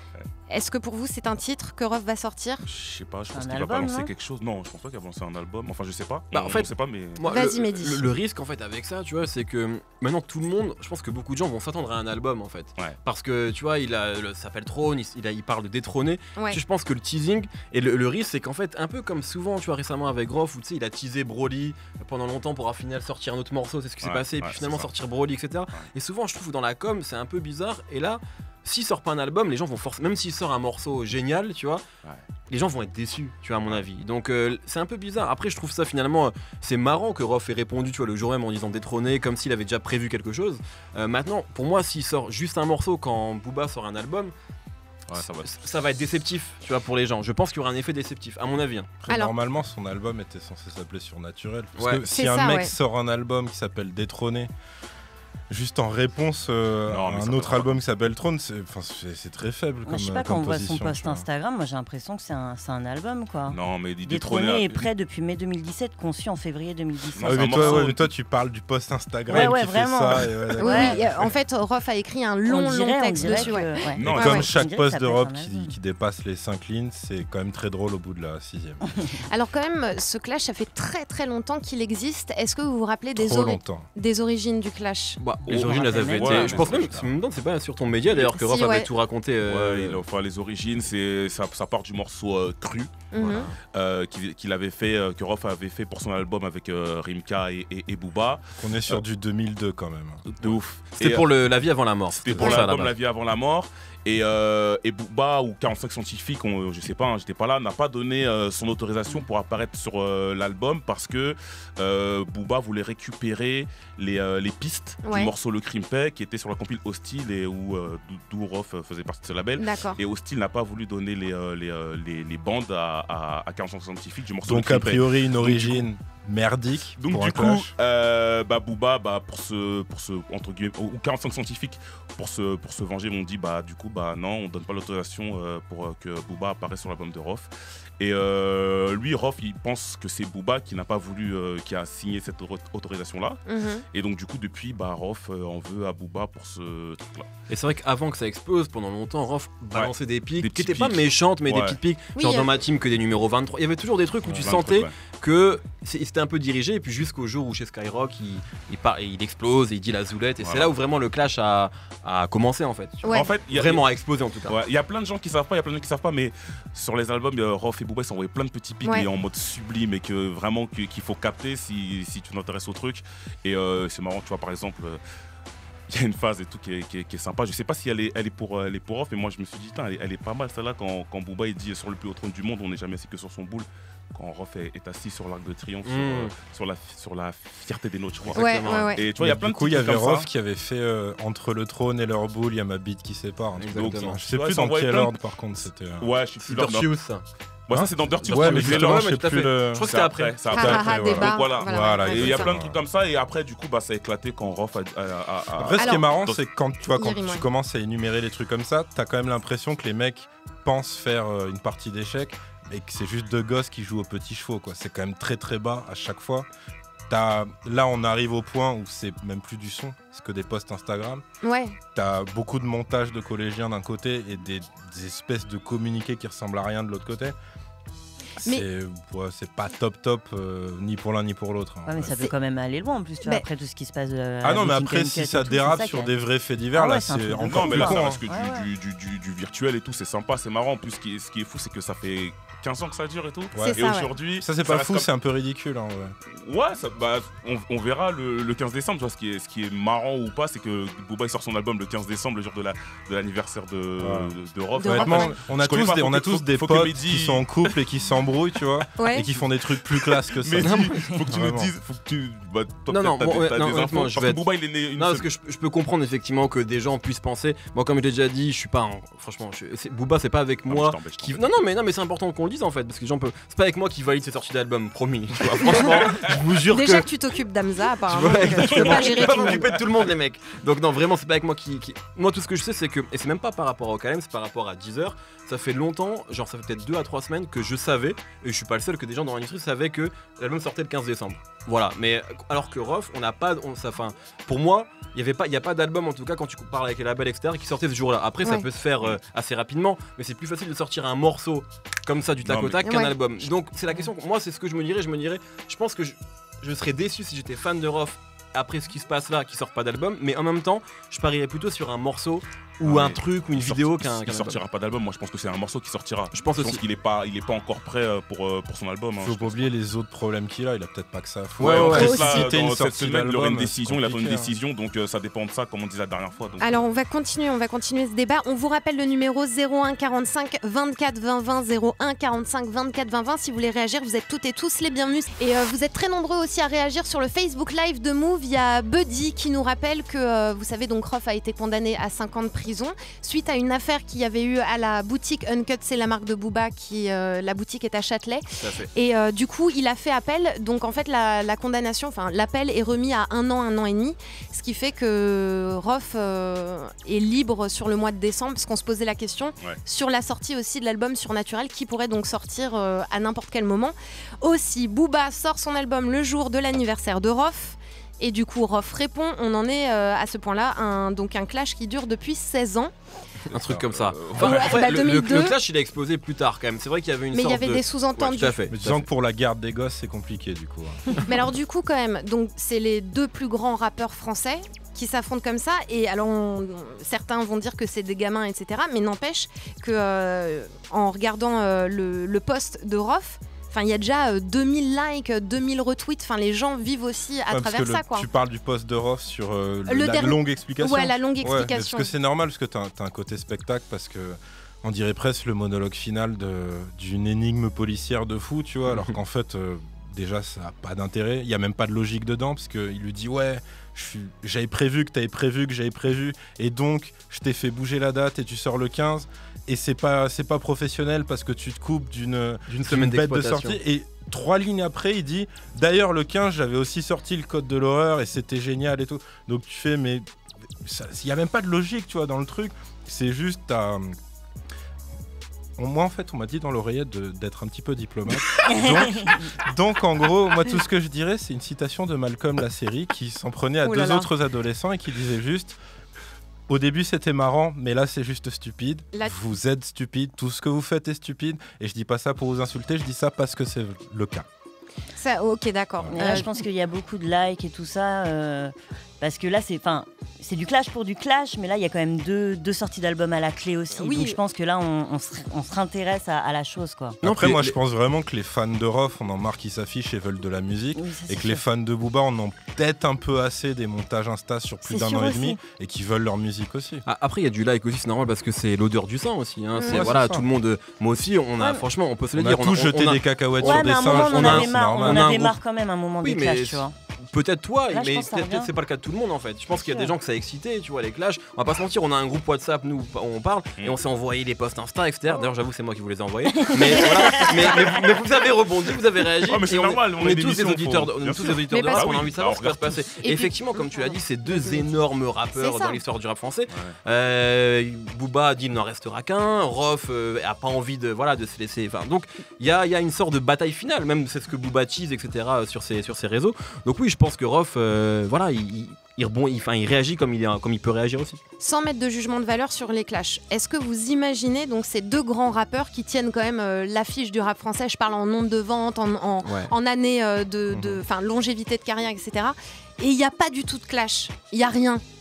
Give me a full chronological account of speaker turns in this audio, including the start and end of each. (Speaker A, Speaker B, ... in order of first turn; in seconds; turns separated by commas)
Speaker A: 0.5-2.6, Speaker B: 2.6-7.2, Speaker C: 3.3-4.1, Speaker D: 6.3-31.8, Speaker A: 7.3-8.0, Speaker A: 16.4-16.6, Speaker B: 24.0-24.9, Speaker D: 32.5-44.3, Speaker B: 45.1-45.6, Speaker D: 45.4-48.9, Speaker E: 49.0-54.5, Speaker A: 49.1-49.3, Speaker D: 51.8-52.0, Speaker A: 52.1-52.7, Speaker E: 55.5-61.2, Speaker B: 56.9-57.8, Speaker C: 59.9-67.9, Speaker B: 63.5-64.9, Speaker B: 67.1-68.1, Speaker E: 67.2-71.3, Speaker C: 69.3-71.0, Speaker A: 70.6-74.4, Speaker C: 72.5-75.7, Speaker E: 73.2-78.8, Speaker B: 74.0-74.5, Speaker A: 79.3-85.2, Speaker E: 83.2-83.9, Speaker D: 85.2-90.0, Speaker B: 85.5-87.0, Speaker C: 85.5-86.7, Speaker E: 86.6-87.0, Speaker A: 88.4-88.9, Speaker B: 89.4-99.0, Speaker A: 93.1-93.5, Speaker D: 93.2-93.5, Speaker E: 98.6-100.6, Speaker B: 100.3-101.3, Speaker D: 101.0-102.9, Speaker B: 102.1-125.8, Speaker E: 102.3-102.5, Speaker A: 115.0-115.3, Speaker A: 119.6-120.0, Speaker E: 124.4-127.7, Speaker B: 127.0-147.3, Speaker A: 143.5-143.8, Speaker D: 147.5-164.6, Speaker B: 149.7-151.8, Speaker A: 152.1-152.5, Speaker B: 154.3-154.9, Speaker B: 160.4-160.7, Speaker A: 163.0-163.3, Speaker B: 163.1-163.8, Speaker B: 164.4-175.0, Speaker B: 175.9-190.3, Speaker D: 185.8-186.3, Speaker D: 188.3-188.9, Speaker A: 188.3-189.0, Speaker E: 189.2-196.1, Speaker B: 193.6-195.2, Speaker D: 193.6-194.2, Speaker B: 196.0-196.9, Speaker D: 196.4-197.2, Speaker B: 197.7-199.2, Speaker E: 197.7-199.9, Speaker D: 198.2-200.7, Speaker B: 199.8-206.4, Speaker A: 200.5-202.5, Speaker E: 200.5-202.8, Speaker E: 205.6-216.5, Speaker A: 205.8-206.2, Speaker A: 206.8-207.4, Speaker E: 217.1-221.2, Speaker A: 221.4-221.8, Speaker E: 221.9-227.3, Speaker E: 228.4-232.2, Speaker C: 231.8-236.1, Speaker E: 234.4-238.2, Speaker C: 236.7-238.7, Speaker B: 237.4-245.1, Speaker E: 243.5-246.2, Speaker A: 243.6-244.1, Speaker B: 246.4-257.7, Speaker E: 254.0-261.7, Speaker A: 254.8-255.4, Speaker A: 259.0-259.3, Speaker B: 260.0-265.3, Speaker D: 260.6-261.0, Speaker D: 262.9-264.4, Speaker D: 264.9-277.1, Speaker B: 270.7-271.4, Speaker B: 275.4-276.4, Speaker A: 276.7-279.6, Speaker D: 278.1-314.6, Speaker B: 278.2-279.6, Speaker B: 302.4-303.5, Speaker A: 302.8-303.1, Speaker B: 312.8-319.6, Speaker D: 316.3-316.8, Speaker E: 319.2-324.5, Speaker B: 321.6-326.8, Speaker D: 321.6-322.1, Speaker A: 321.9-322.5, Speaker A: 326.6-372.9, Speaker D: 348.6-348.9, Speaker E: 373.5-373.9, Speaker D: 373.5-379.1, Speaker B: 374.1-374.8, Speaker A: 374.4-375.6, Speaker A: 377.3-378.6, Speaker E: 378.7-381.2, Speaker A: 381.2-398.2, Speaker E: 397.5-430.2, Speaker A: 399.9-402.1, Speaker D: 422.7-423.8, Speaker E: 430.8-434.1, Speaker E: 435.8-445.8, Speaker A: 443.8-444.3, Speaker E: 446.7-454.4, Speaker A: 455.1-456.6, Speaker E: 456.0-456.4, Speaker C: 456.1-467.2, Speaker A: 464.0-464.4, Speaker D: 467.2-467.7, Speaker E: 467.2-477.0, Speaker C: 470.9-471.6, Speaker C: 474.8-475.6, Speaker D: 477.1-485.6, Speaker A: 479.8-480.0, Speaker E: 479.8-480.5, Speaker E: 482.3-485.3, Speaker C: 483.6-486.9, Speaker D: 486.2-521.4, Speaker C: 487.9-488.7, Speaker C: 489.8-490.1, Speaker B: 499.4-503.1, Speaker A: 501.7-502.2, Speaker A: 503.2-504.9, Speaker A: 505.5-506.0, Speaker A: 521.6-535.0, Speaker D: 529.4-529.7, Speaker E: 530.7-531.0